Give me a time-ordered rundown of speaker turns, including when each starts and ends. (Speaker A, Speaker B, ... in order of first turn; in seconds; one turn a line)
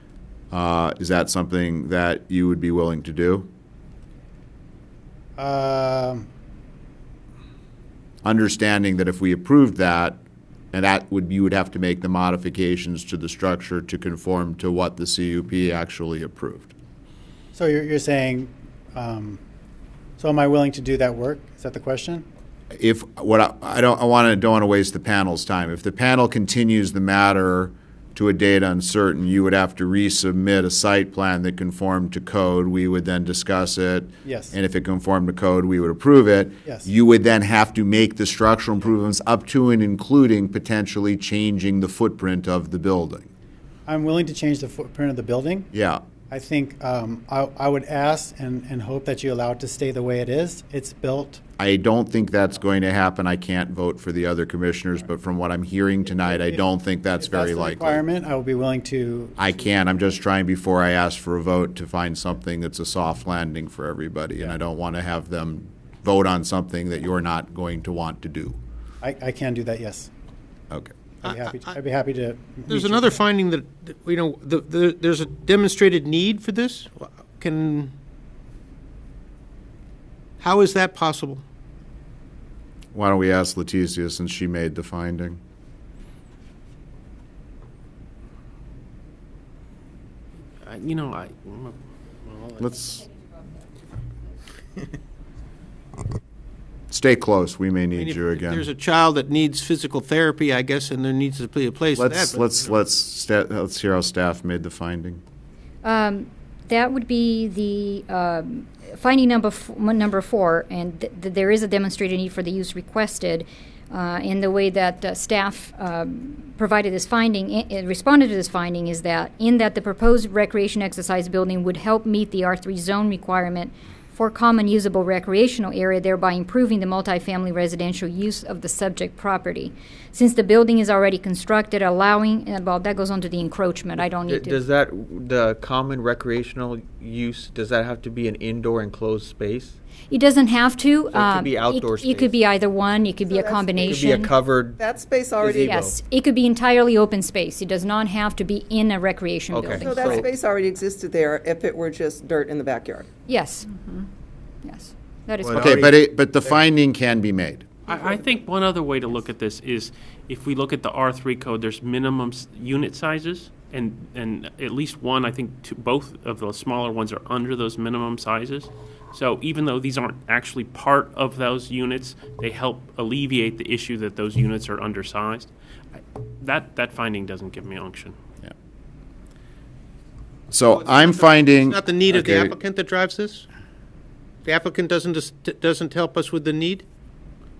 Speaker A: 0.5-3.5
Speaker B: 5.4-6.2
Speaker A: 8.2-10.2
Speaker A: 10.7-16.7
Speaker B: 17.5-19.4
Speaker B: 20.2-22.2
Speaker A: 22.8-43.3
Speaker B: 34.2-34.5
Speaker B: 43.9-45.7
Speaker A: 45.7-46.0
Speaker B: 46.3-51.4
Speaker A: 51.6-58.0
Speaker B: 56.3-56.6
Speaker B: 57.2-59.4
Speaker A: 59.4-68.6
Speaker B: 69.0-70.1
Speaker B: 71.2-73.2
Speaker C: 72.7-77.9
Speaker C: 80.4-81.4
Speaker A: 82.9-85.4
Speaker D: 90.6-92.6
Speaker A: 92.6-93.0
Speaker A: 96.9-98.7
Speaker C: 98.0-102.4
Speaker A: 101.9-105.2
Speaker E: 105.8-134.6
Speaker F: 134.0-139.8
Speaker E: 140.1-144.3
Speaker F: 141.1-142.4
Speaker G: 143.2-145.8
Speaker F: 143.8-145.9
Speaker E: 145.6-150.2
Speaker F: 149.5-150.3
Speaker G: 149.8-153.1
Speaker E: 153.3-154.1
Speaker E: 154.6-155.7
Speaker F: 155.5-155.9
Speaker A: 155.5-157.7
Speaker D: 157.9-175.5
Speaker G: 157.9-158.2
Speaker D: 176.4-178.2
Speaker A: 180.5-182.6
Speaker C: 180.8-183.4
Speaker C: 184.4-186.8